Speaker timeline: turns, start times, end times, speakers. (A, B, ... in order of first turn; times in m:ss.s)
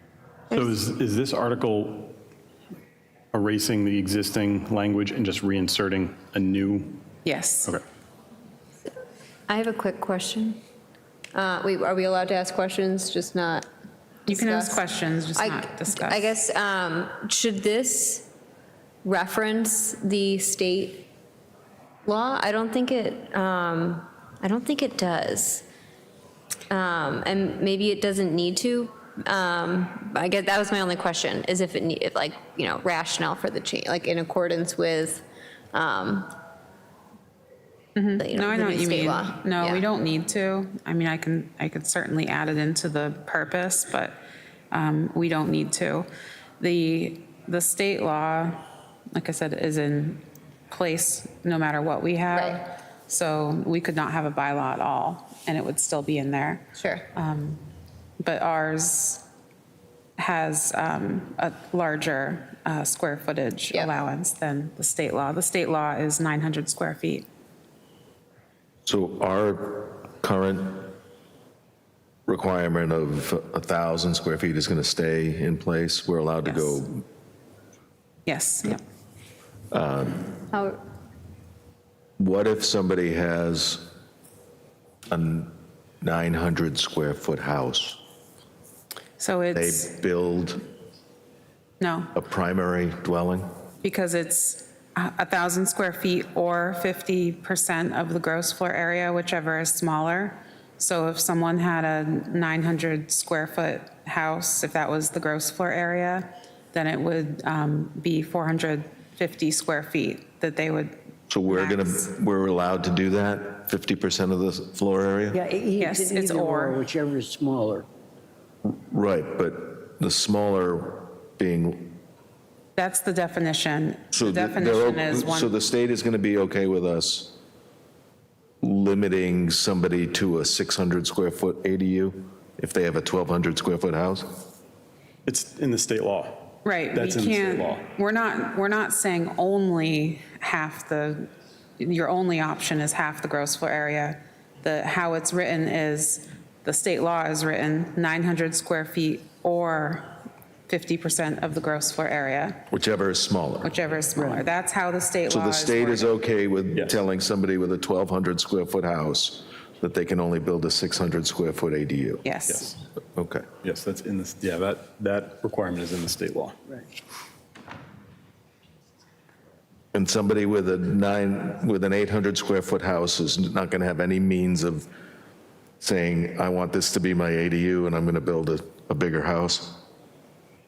0:00.5-0:02.2 A
0:03.3-0:07.0 A
0:07.2-0:07.8 B
0:09.5-0:10.6 C
0:11.3-0:13.7 C
0:14.3-0:14.8 C
0:14.3-0:16.3 B
0:15.4-0:18.3 C
0:19.0-0:21.1 C
0:22.0-0:25.6 C
0:26.7-0:36.3 C
0:38.0-0:44.2 B
0:38.2-0:39.8 C
0:44.7-0:46.1 B
0:46.6-0:48.6 B
0:49.1-0:57.6 B
0:52.3-0:52.6 C
0:56.8-0:57.1 C
0:58.2-0:59.2 B
1:00.2-1:07.3 B
1:08.8-1:11.0 D
1:12.3-1:17.0 D
1:16.4-1:16.8 B
1:18.3-1:18.8 B
1:19.7-1:20.4 D
1:20.5-1:20.8 C
1:22.2-1:23.9 D
1:25.1-1:28.0 D
1:29.2-1:29.9 B
1:29.5-1:30.6 D
1:31.8-1:32.1 B
1:32.1-1:33.4 D
1:33.8-1:52.1 B
1:51.3-1:55.4 D
1:55.3-1:57.9 E
1:55.8-1:56.8 B
1:58.6-2:02.0 D
2:02.8-2:05.5 B
2:04.1-2:07.4 D
2:08.6-2:14.4 D
2:15.2-2:17.8 A
2:16.6-2:30.2 B
2:30.7-2:32.7 B
2:32.7-2:33.7 D
2:33.6-2:36.1 B
2:34.2-2:34.5 E
2:35.3-2:42.2 D
2:36.7-2:37.0 A
2:42.2-2:42.7 B
2:42.5-2:42.7 A
2:43.2-2:43.4 D
2:43.6-2:46.6 A
2:49.9-2:54.9 D
2:55.8-2:59.8 D